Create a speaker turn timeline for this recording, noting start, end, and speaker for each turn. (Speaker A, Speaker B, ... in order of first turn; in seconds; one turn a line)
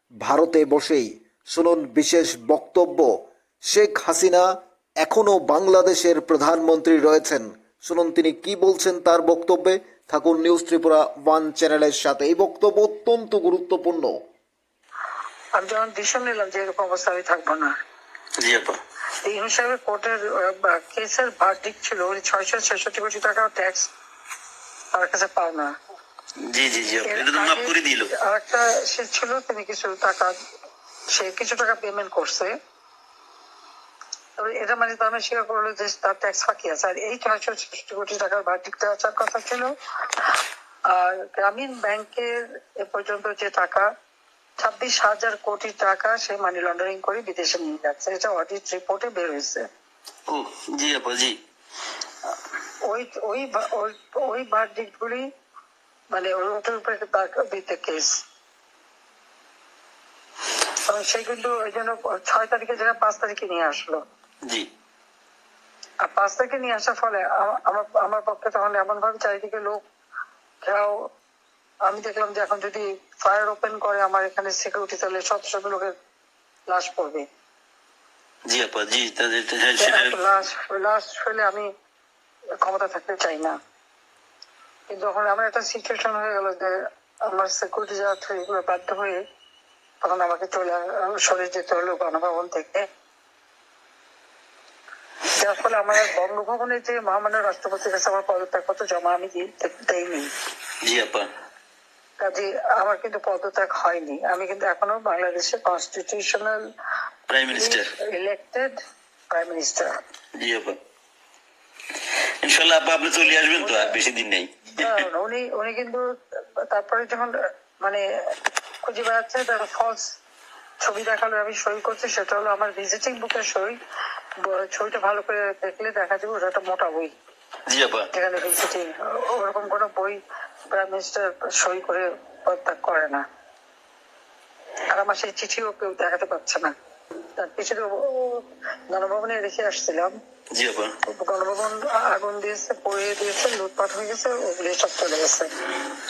Speaker A: 0.2-3.1
Speaker A: 3.7-4.5
Speaker A: 5.0-14.2
Speaker B: 15.6-17.7
Speaker C: 18.4-18.8
Speaker B: 19.2-23.9
Speaker B: 24.9-25.7
Speaker C: 26.5-28.1
Speaker B: 27.0-30.3
Speaker B: 31.1-32.5
Speaker B: 34.4-40.3
Speaker B: 40.9-43.9
Speaker B: 44.6-49.7
Speaker C: 50.3-51.4
Speaker B: 52.9-55.2
Speaker B: 56.1-58.2
Speaker B: 60.9-64.0
Speaker B: 66.0-69.8
Speaker B: 70.6-70.9
Speaker B: 71.9-75.9
Speaker B: 76.7-77.3
Speaker C: 78.5-80.2
Speaker B: 79.8-81.7
Speaker B: 82.6-83.5
Speaker B: 84.9-86.7
Speaker B: 87.3-89.2
Speaker B: 90.0-92.9
Speaker B: 95.4-100.3
Speaker C: 100.8-101.3
Speaker B: 102.2-106.6
Speaker C: 107.3-107.9
Speaker B: 107.5-108.8
Speaker B: 109.3-110.0
Speaker C: 110.4-110.8
Speaker C: 112.4-115.1
Speaker B: 113.6-114.0
Speaker B: 114.8-118.0
Speaker B: 118.8-120.1
Speaker B: 120.8-123.8
Speaker B: 124.4-127.1
Speaker C: 127.7-128.1
Speaker B: 128.1-130.2
Speaker B: 130.7-133.2
Speaker B: 134.9-136.7
Speaker B: 137.4-140.1
Speaker C: 140.5-140.9
Speaker B: 141.1-145.5